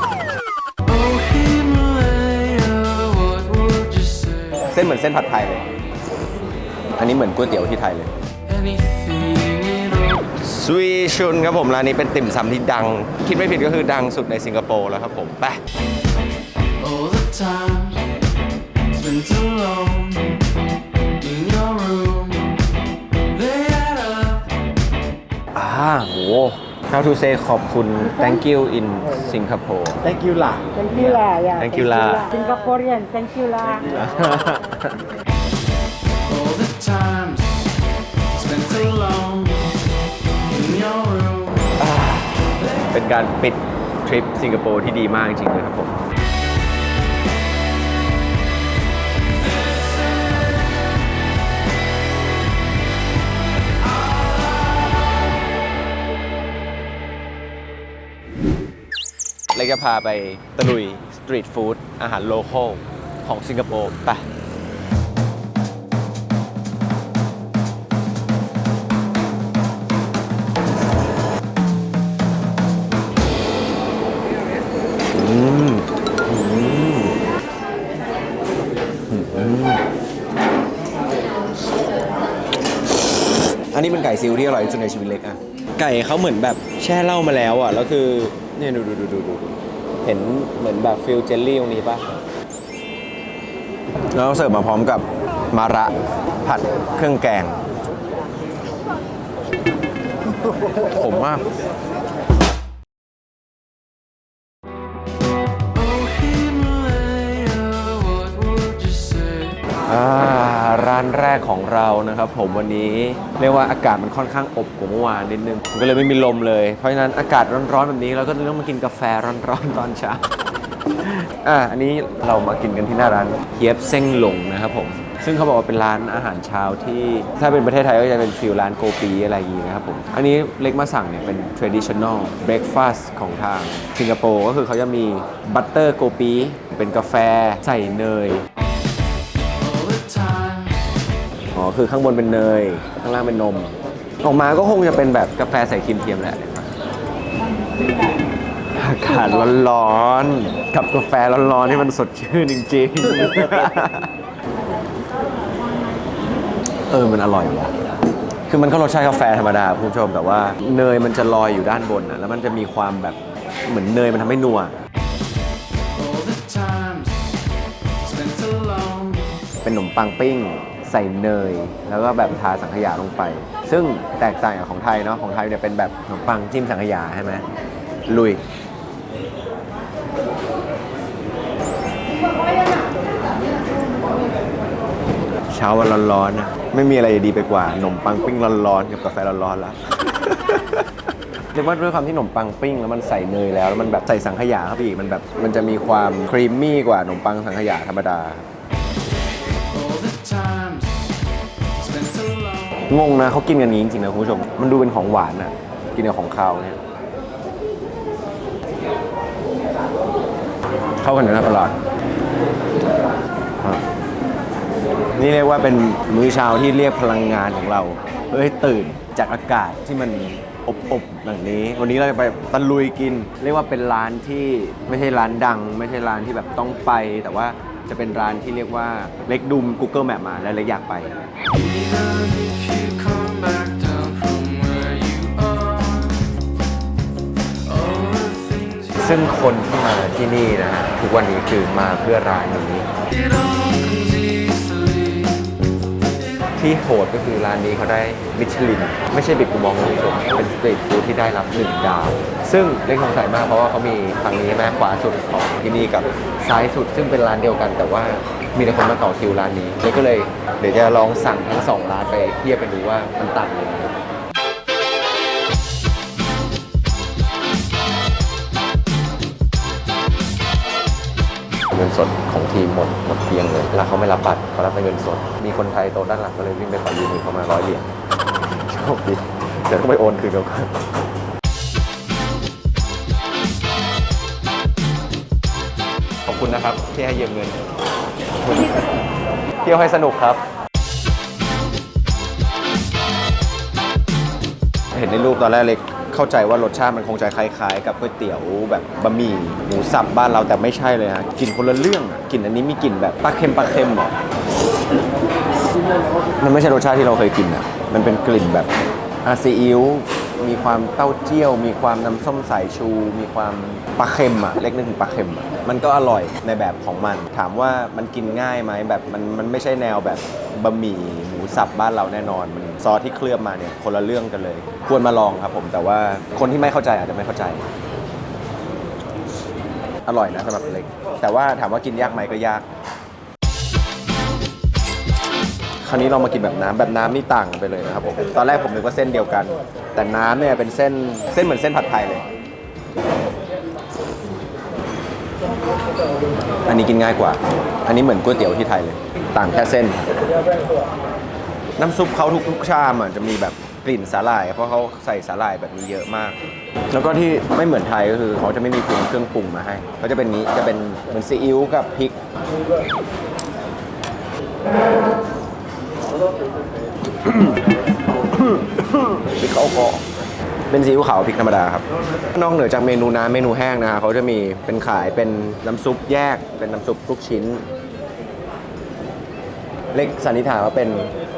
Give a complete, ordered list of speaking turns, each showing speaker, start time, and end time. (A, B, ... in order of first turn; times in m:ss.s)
0:00.8-0:04.7 A
0:04.7-0:05.7 B
0:07.0-0:08.1 B
0:08.5-0:10.5 A
0:10.5-0:15.6 B
0:16.8-0:18.1 A
0:18.9-0:20.4 A
0:21.2-0:22.6 A
0:23.3-0:24.5 A
0:25.6-0:32.3 B
0:30.8-0:33.9 C
0:33.9-0:35.0 B
0:36.3-0:37.8 A
0:38.3-0:39.8 A
0:40.5-0:41.7 A
0:41.8-0:46.0 B
0:49.4-0:50.8 A
0:53.8-0:54.8 A
0:59.5-1:04.3 B
1:15.1-1:17.2 B
1:19.1-1:19.8 B
1:23.7-1:32.1 B
1:34.1-1:37.6 B
1:40.6-1:41.5 B
1:45.7-1:49.6 A
1:49.9-2:00.2 B
2:01.0-2:18.4 B
2:19.5-2:20.9 A
2:21.5-2:26.7 B
2:28.8-2:34.1 B
2:36.9-2:37.7 B
2:38.5-2:44.8 B
2:45.9-2:49.4 A
2:49.6-2:57.4 B
2:58.1-2:58.4 B
3:05.5-3:10.9 B
3:11.5-3:18.5 B
3:19.7-3:22.8 A
3:22.9-3:26.8 B
3:31.0-3:31.8 B
3:35.1-3:51.2 B
3:51.5-3:56.3 A
3:57.6-3:59.6 A
3:59.0-4:02.9 B
4:03.1-4:05.5 A
4:06.6-4:23.9 B
4:31.7-4:40.7 B
4:46.3-4:47.6 B
4:48.4-4:48.9 B
4:49.6-4:50.4 B
4:54.9-5:04.2 B
5:06.4-5:08.7 B
5:09.2-5:27.7 B
5:30.1-5:32.7 B
5:35.8-5:42.3 B
5:46.7-5:50.2 B
5:51.8-5:56.4 B
5:56.9-6:02.2 B
6:07.2-6:07.6 B
6:08.3-6:10.1 B
6:10.7-6:17.7 B
6:19.9-6:21.1 B